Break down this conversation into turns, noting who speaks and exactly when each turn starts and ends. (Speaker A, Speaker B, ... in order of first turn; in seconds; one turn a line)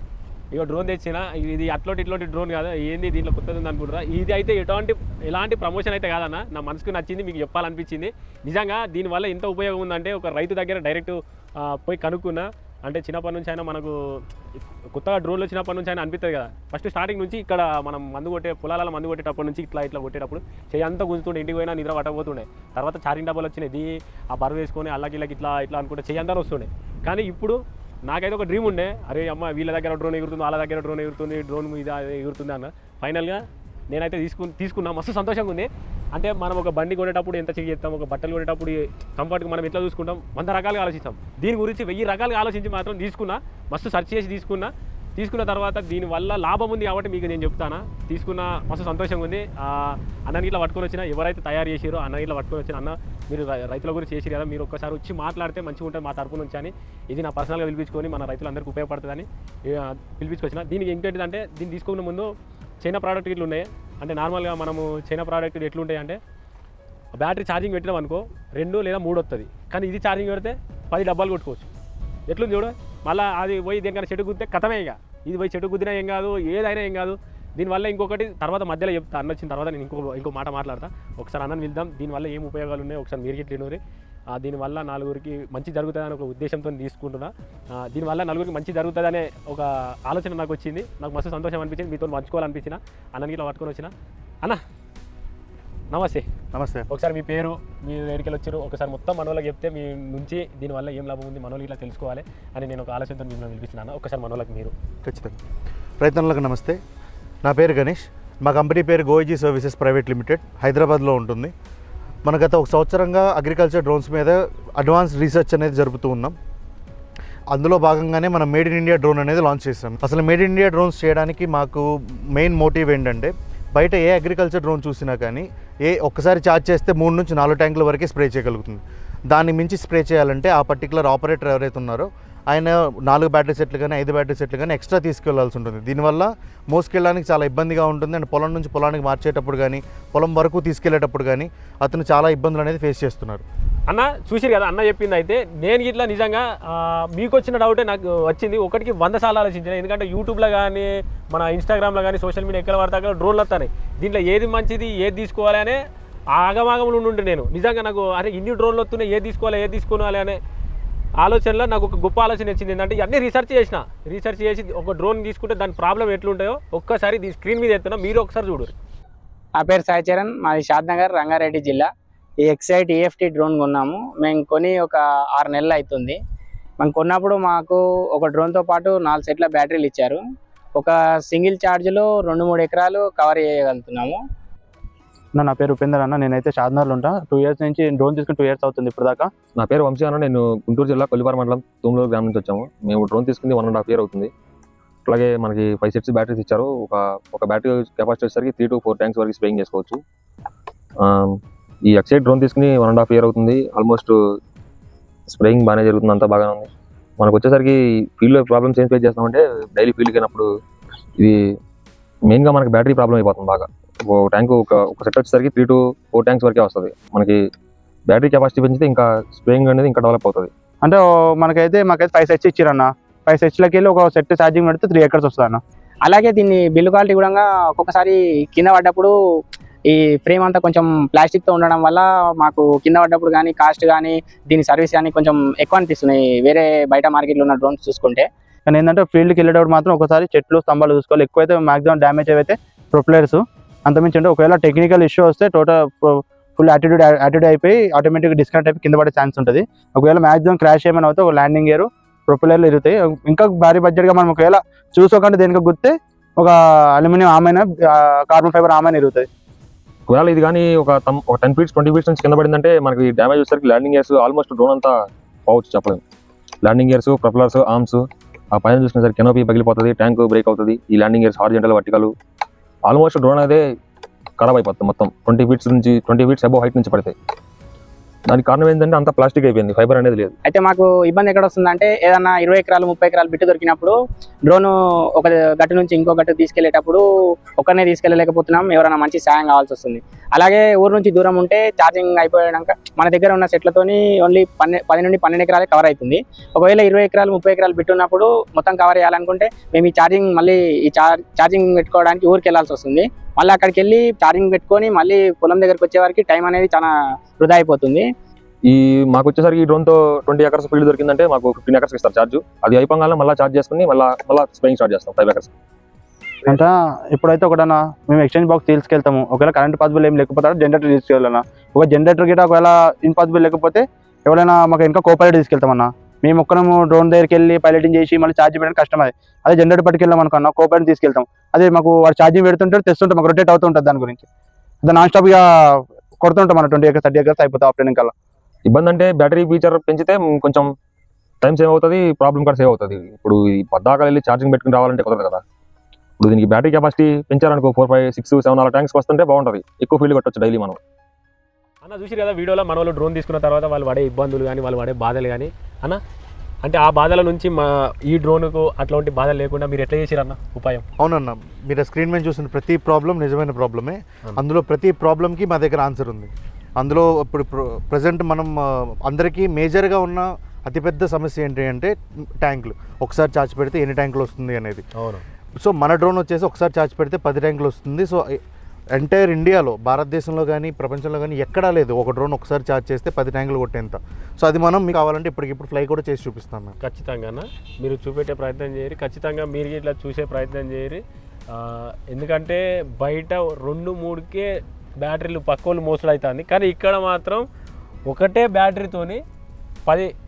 Speaker A: 0.5-14.2
Speaker A: 14.9-62.3
Speaker A: 62.8-66.2
Speaker A: 67.2-71.7
Speaker A: 72.3-83.8
Speaker A: 84.3-94.6
Speaker A: 95.9-96.3
Speaker B: 96.5-96.9
Speaker A: 96.9-104.7
Speaker B: 105.0-105.4
Speaker B: 106.0-106.8
Speaker B: 107.4-111.5
Speaker B: 112.2-116.4
Speaker B: 117.5-143.4
Speaker A: 143.9-155.8
Speaker A: 156.3-160.4
Speaker A: 161.2-168.7
Speaker C: 169.6-171.9
Speaker C: 172.4-176.2
Speaker C: 176.8-180.2
Speaker C: 180.8-184.2
Speaker D: 185.4-189.3
Speaker E: 189.6-194.3
Speaker E: 195.1-200.0
Speaker E: 201.0-204.1
Speaker E: 205.3-206.7
Speaker E: 207.2-210.5
Speaker E: 212.3-217.4
Speaker E: 218.1-220.5
Speaker D: 220.8-225.6
Speaker C: 226.1-229.1
Speaker C: 229.9-238.3
Speaker D: 238.7-259.3
Speaker E: 260.1-264.9
Speaker E: 265.5-266.0
Speaker E: 266.6-272.1
Speaker E: 272.9-273.6
Speaker E: 274.4-277.1
Speaker E: 278.3-280.4
Speaker C: 280.5-283.9
Speaker C: 284.5-287.0
Speaker C: 287.6-308.1
Speaker E: 308.7-315.5
Speaker D: 316.5-334.3
Speaker D: 334.8-338.1
Speaker E: 338.7-340.7
Speaker E: 341.4-345.4
Speaker E: 346.2-350.8
Speaker A: 351.8-356.0
Speaker A: 356.6-360.9
Speaker B: 361.0-374.8
Speaker A: 375.0-375.2
Speaker B: 375.6-378.4
Speaker B: 378.9-386.8
Speaker A: 386.8-397.5
Speaker A: 398.1-399.2
Speaker A: 399.9-400.1